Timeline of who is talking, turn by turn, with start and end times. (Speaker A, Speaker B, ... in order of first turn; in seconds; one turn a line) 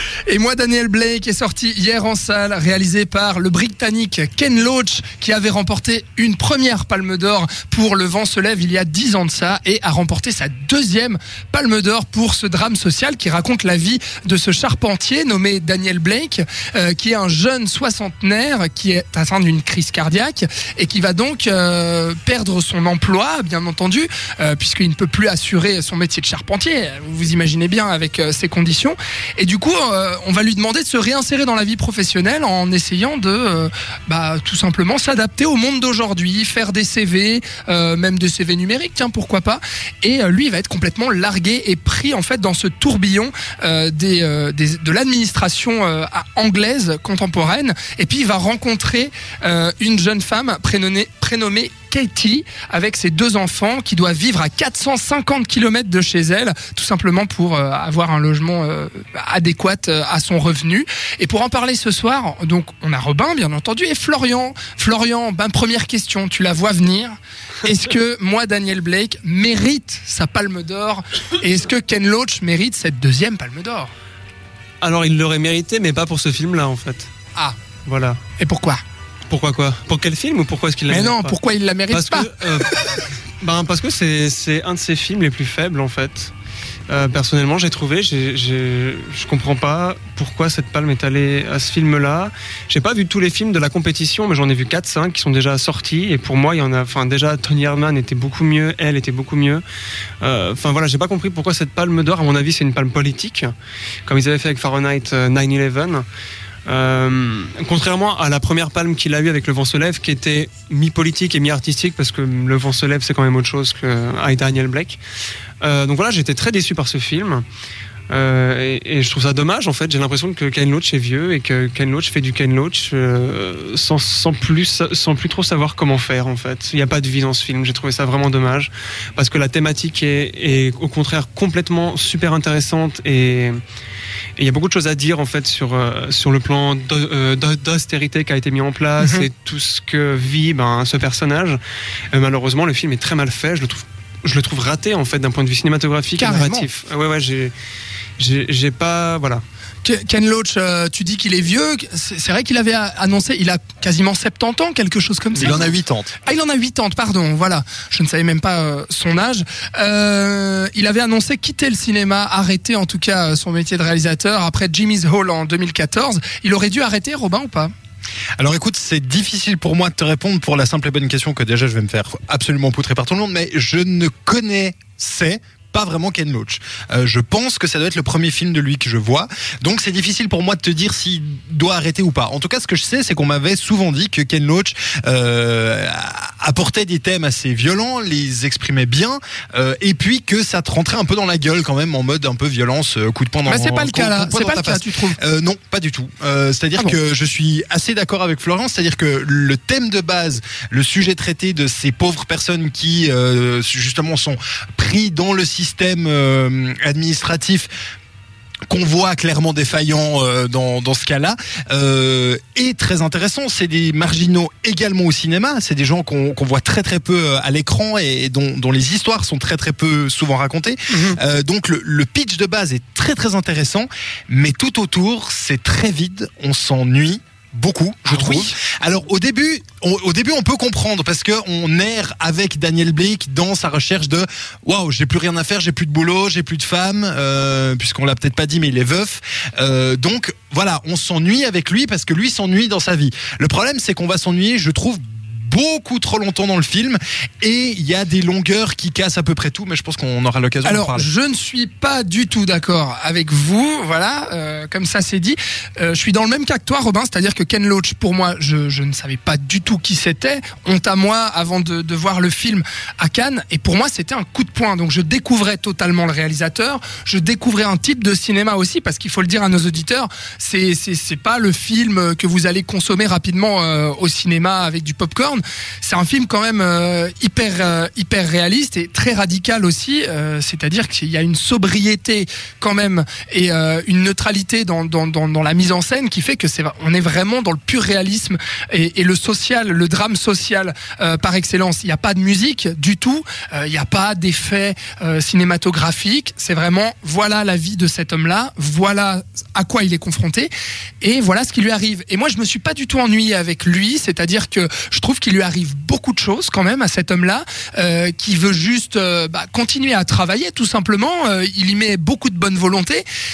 Speaker A: 0.3-73.9
Speaker B: 74.8-77.1
Speaker B: 77.8-78.2
Speaker A: 78.4-78.8
Speaker B: 79.3-81.4
Speaker A: 80.9-82.7
Speaker B: 81.9-82.8
Speaker B: 83.4-86.3
Speaker B: 86.9-99.6
Speaker B: 100.2-103.5
Speaker B: 104.0-106.0
Speaker B: 106.7-115.0
Speaker B: 115.6-117.5
Speaker B: 118.1-133.6
Speaker B: 134.4-141.6
Speaker A: 139.0-139.2
Speaker B: 142.1-147.5
Speaker A: 146.2-146.7
Speaker B: 148.2-149.4
Speaker A: 149.8-167.7
Speaker C: 155.4-156.2
Speaker C: 168.4-207.7
Speaker A: 193.4-195.2
Speaker C: 208.7-251.1
Speaker A: 228.1-228.5
Speaker A: 250.6-300.5
Speaker A: 301.0-313.0